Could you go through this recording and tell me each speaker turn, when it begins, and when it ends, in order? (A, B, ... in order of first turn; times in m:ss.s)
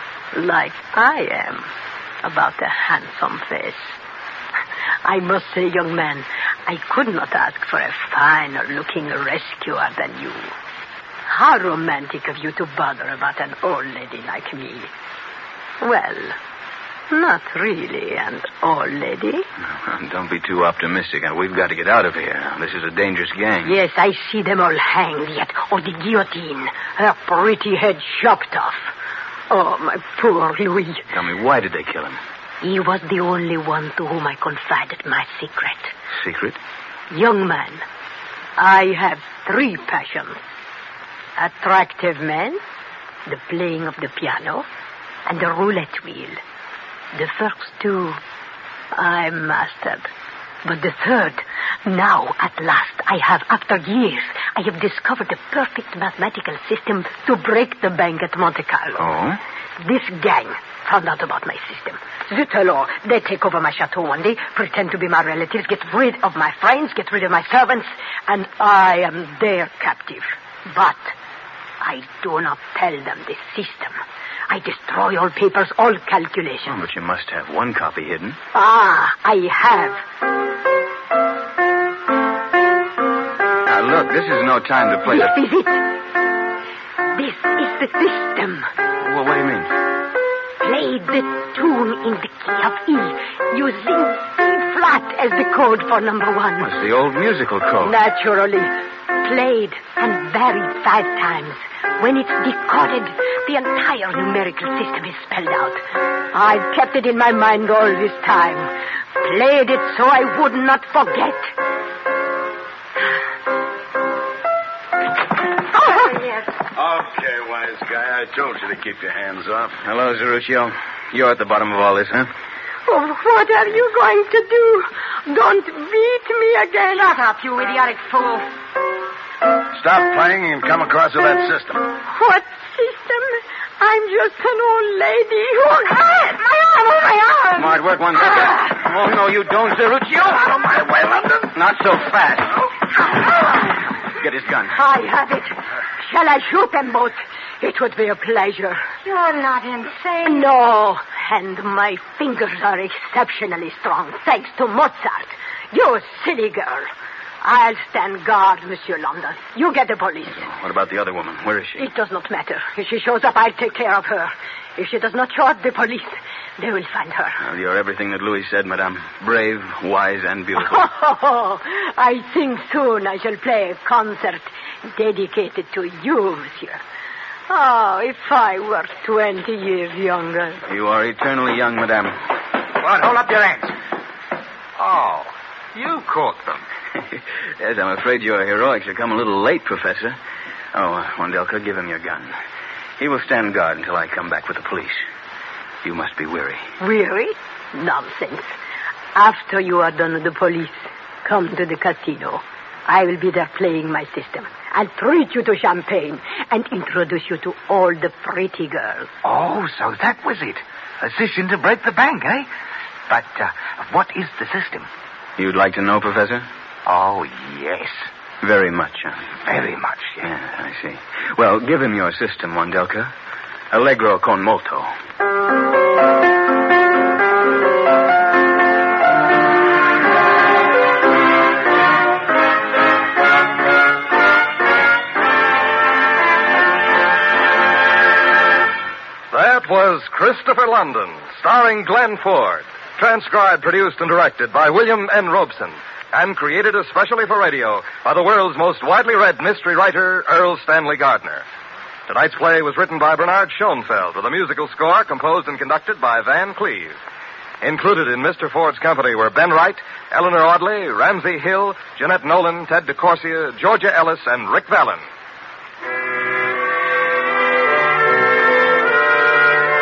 0:00.3-0:01.7 A
0:02.2-0:04.0 A
0:05.0-0:10.5 A
0:11.3-0:14.9 A
0:15.8-0:16.4 A
0:17.1-0:19.5 A
0:19.7-0:23.8 B
0:23.6-0:28.9 A
0:29.5-0:31.0 A
0:31.1-0:32.2 B
0:32.6-0:35.9 A
0:36.2-0:36.6 B
0:37.1-0:37.8 A
0:38.6-0:40.4 A
0:41.4-0:42.6 A
0:43.3-0:44.6 A
0:45.3-0:46.4 A
0:47.1-0:48.2 A
0:48.9-0:50.1 A
0:50.6-0:59.1 A
0:59.0-0:59.4 B
0:59.8-1:11.1 A
1:11.8-1:14.0 A
1:14.5-1:16.8 A
1:16.7-1:18.4 B
1:18.5-1:20.0 A
1:23.7-1:25.4 B
1:25.1-1:25.8 A
1:27.2-1:28.7 A
1:29.0-1:29.7 B
1:30.6-1:36.7 A
1:36.6-1:38.0 B
1:37.8-1:45.8 A
1:46.3-1:48.7 A
1:49.2-1:51.5 A
1:56.8-1:59.8 C
1:59.8-2:02.3 B
2:02.9-2:07.0 A
2:07.0-2:08.4 D
2:09.7-2:11.8 C
2:12.1-2:17.4 A
2:16.8-2:17.2 D
2:17.6-2:22.6 B
2:24.2-2:24.8 B
2:24.7-2:28.8 A
2:29.0-2:30.4 D
2:30.2-2:36.9 A
2:37.4-2:40.4 A
2:40.3-2:41.9 B
2:41.8-2:47.4 A
2:47.4-2:50.9 B
2:50.6-2:56.8 A
2:57.5-3:00.6 A
3:00.7-3:02.2 B
3:02.8-3:03.7 E
3:04.8-3:06.6 E
3:07.1-3:10.2 B
3:10.7-3:12.3 B
3:13.0-3:15.0 B
3:15.8-3:16.6 B
3:16.8-3:18.5 A
3:19.2-3:29.1 A
3:29.2-3:32.5 E
3:33.1-3:34.9 E
3:35.4-3:36.4 B
3:36.9-3:38.1 E
3:38.4-3:39.3 B
3:39.4-3:40.2 E
3:40.2-3:43.1 B
3:43.7-3:44.9 B
3:59.3-4:11.4 F
4:12.1-4:17.0 F
4:17.6-4:25.0 F